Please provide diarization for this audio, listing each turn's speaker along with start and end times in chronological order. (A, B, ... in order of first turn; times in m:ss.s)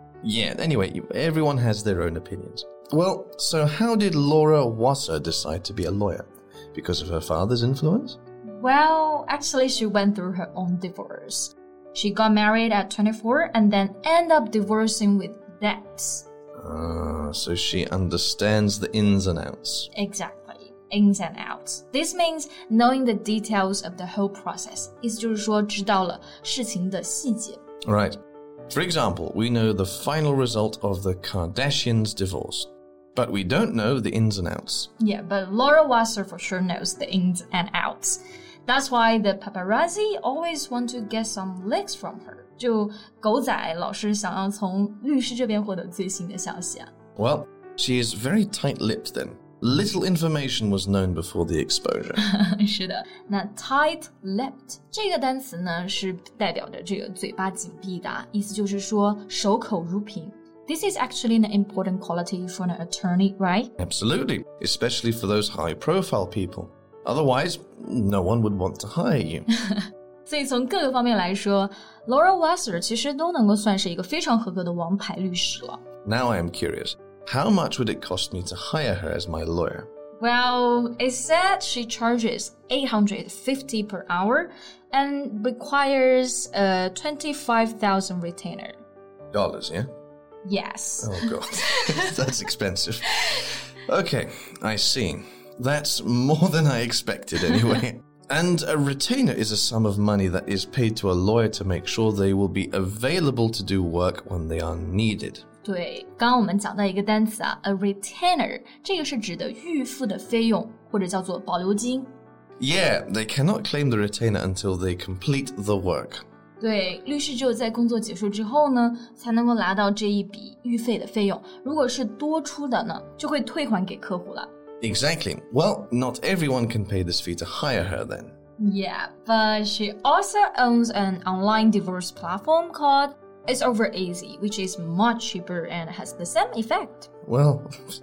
0:00.2-0:08.2 A
0:08.6-0:16.2 B
0:16.6-0:19.9 A
0:19.9-0:27.6 B
0:27.9-0:28.2 A
0:28.7-0:34.9 A
0:35.0-0:46.9 B
0:47.2-0:52.2 A
0:52.2-1:03.7 B
1:03.8-1:09.5 A
1:09.6-1:15.8 B
1:16.0-1:19.9 A
1:20.2-1:28.8 B
1:29.3-1:29.9 A
1:30.4-1:32.1 B
1:31.0-1:45.4 A
1:45.6-1:52.1 B
1:52.6-1:56.2 A
1:56.6-2:04.5 B
2:04.8-2:08.3 A
2:08.6-2:17.1 B
2:17.2-2:17.9 A